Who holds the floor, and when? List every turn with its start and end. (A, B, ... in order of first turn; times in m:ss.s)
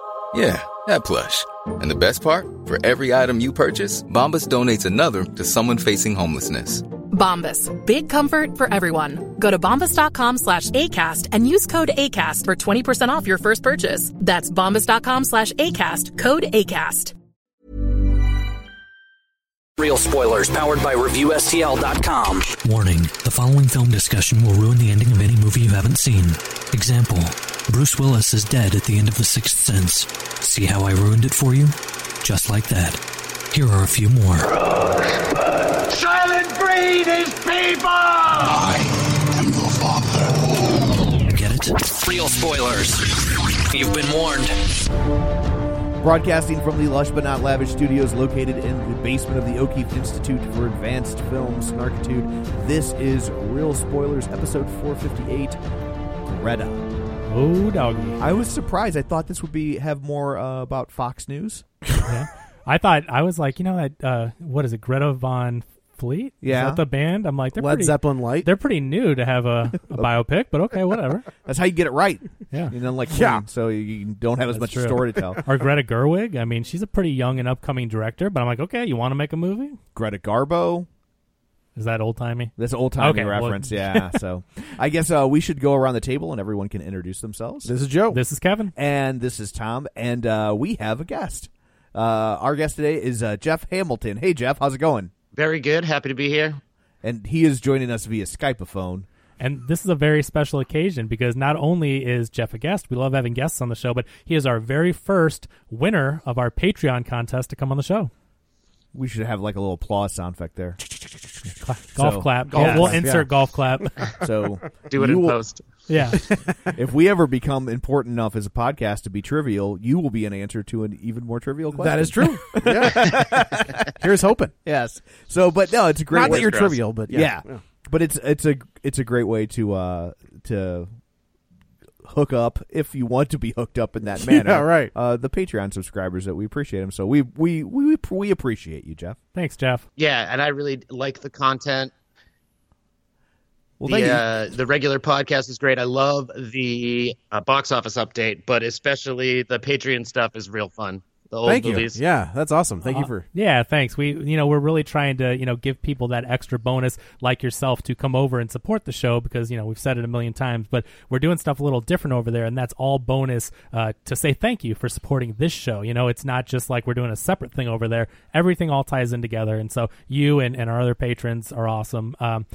0:00.3-0:06.8 A
0:07.1-0:17.1 B
0:19.8-0:22.5 C
0:22.6-0:34.6 D
0:35.9-0:40.9 E
0:41.3-0:41.9 D
0:42.0-0:43.0 C
0:43.7-0:44.5 C
0:46.0-0:55.6 F
0:56.2-0:56.8 F
0:57.3-0:58.2 G
0:58.2-1:01.6 F
1:02.1-1:11.3 G
1:06.4-1:06.8 F
1:07.6-1:08.5 H
1:11.4-1:15.4 F
1:13.1-1:13.4 H
1:14.5-1:19.8 G
1:20.0-1:20.9 F
1:21.8-1:24.2 G
1:22.6-1:27.7 F
1:27.6-1:28.2 H
1:28.1-1:28.7 G
1:28.8-1:35.1 F
1:35.4-1:36.6 I
1:37.0-1:39.1 F
1:39.4-1:48.1 G
1:48.9-1:50.8 F
1:51.6-1:54.0 G
1:52.0-1:53.0 F
1:52.5-1:53.3 H
1:54.2-1:55.4 F
1:54.9-1:55.7 I
1:55.9-1:56.2 G
1:56.2-1:56.7 H
1:56.7-2:03.9 F
2:01.8-2:04.5 H
2:04.6-2:10.9 F
2:06.1-2:06.8 I
2:06.1-2:07.6 H
2:12.0-2:19.2 F
2:14.2-2:14.9 H
2:19.4-2:19.8 G
2:20.0-2:21.9 I
2:23.8-2:24.2 F
2:23.8-2:32.0 I
2:31.5-2:33.3 H
2:32.8-2:52.5 G